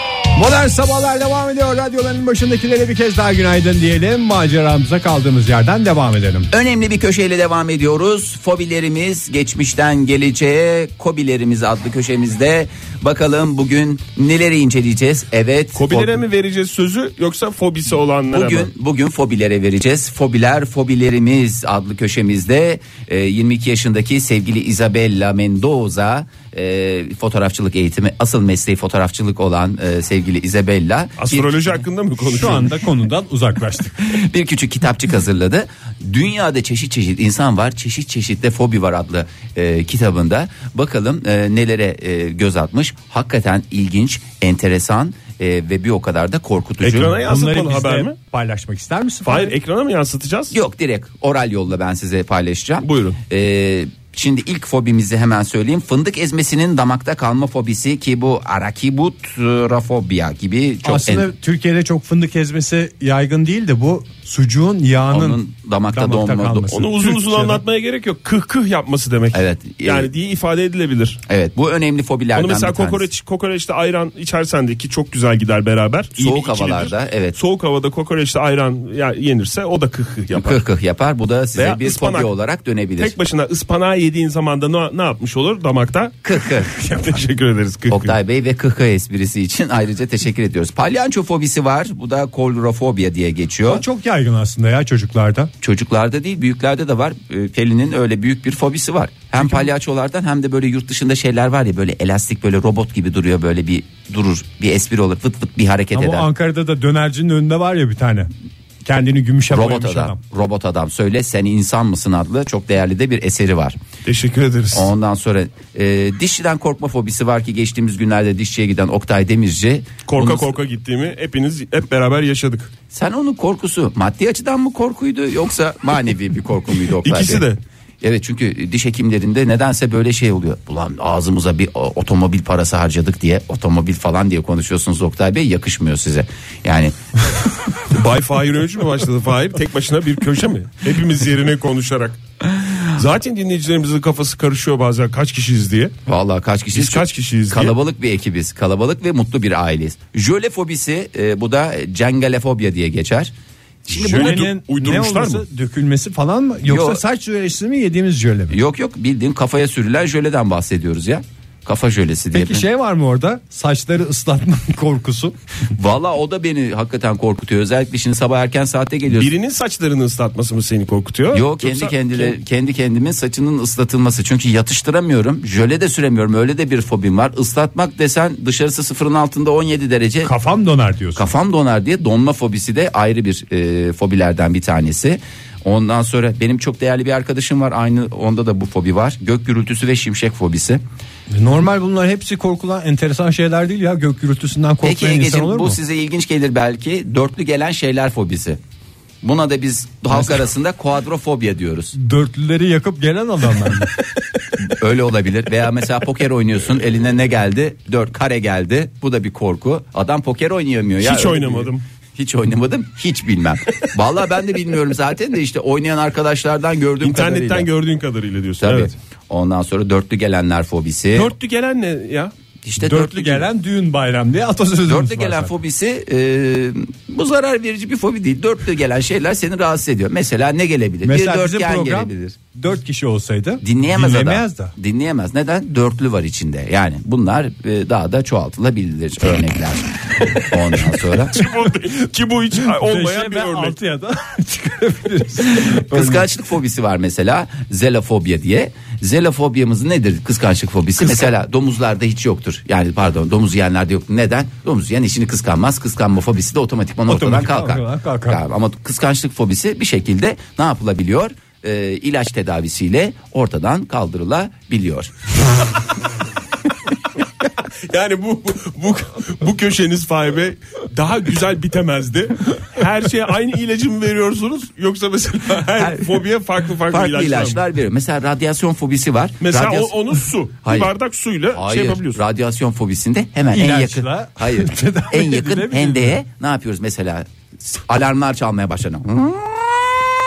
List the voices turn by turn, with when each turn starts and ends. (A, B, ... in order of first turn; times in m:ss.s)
0:00.3-0:06.5 A
0:06.5-0:16.2 B
0:15.7-0:18.7 C
0:18.3-0:31.8 B
0:31.2-0:32.7 C
0:32.2-0:34.0 A
0:34.0-0:47.2 B
0:46.8-0:48.1 C
0:46.8-0:49.5 A
0:49.2-0:50.5 C
0:50.5-1:01.3 B
0:52.8-0:53.2 C
1:00.8-1:05.4 A
1:05.1-1:06.8 B
1:05.9-1:07.6 A
1:06.7-1:11.2 C
1:09.3-1:10.1 B
1:11.3-1:13.0 B
1:12.3-1:20.6 C
1:16.2-1:17.4 B
1:20.3-1:23.1 B
1:21.6-1:22.3 C
1:23.0-1:28.2 C
1:26.2-1:26.7 B
1:27.9-1:33.8 B
1:33.6-1:35.5 A
1:35.6-1:46.3 B
1:39.4-1:39.7 A
1:45.9-1:48.3 A
1:48.8-1:50.2 A
1:49.5-1:53.8 B
1:54.0-1:54.9 C
1:54.7-2:00.5 B
2:00.1-2:02.7 C
2:02.9-2:07.4 B
2:07.0-2:07.6 C
2:08.0-2:16.9 B
2:17.9-2:22.2 C
2:22.8-2:25.9 C
2:26.0-2:33.3 B
2:26.7-2:27.7 C
2:33.9-2:34.4 B
2:33.9-2:35.4 C
2:33.9-2:38.6 A
2:36.6-2:37.0 B
2:38.5-2:42.6 B
2:42.3-2:45.4 A
2:45.7-2:49.3 B
2:49.1-2:52.4 C
2:51.3-3:00.3 B
3:00.2-3:01.3 A
3:01.2-3:10.8 B
3:11.3-3:15.8 A
3:14.8-3:18.6 B
3:19.2-3:21.9 B
3:21.9-3:23.9 A
3:24.6-3:37.7 B
3:31.0-3:31.8 C
3:37.0-3:38.9 C
3:38.6-3:41.3 B
3:41.1-3:42.3 C
3:42.6-3:43.5 B
3:42.8-3:45.5 A
3:44.8-3:52.4 B
3:51.0-3:54.7 A
3:53.6-4:01.4 B
4:01.3-4:03.7 C
4:02.6-4:06.3 A
4:05.5-4:25.1 B
4:17.1-4:18.4 A
4:27.9-4:37.6 C
4:35.8-4:36.2 B
4:36.9-4:40.0 B
4:39.4-4:42.2 C
4:40.6-4:40.9 B
4:41.5-4:49.6 B
4:43.5-4:46.2 A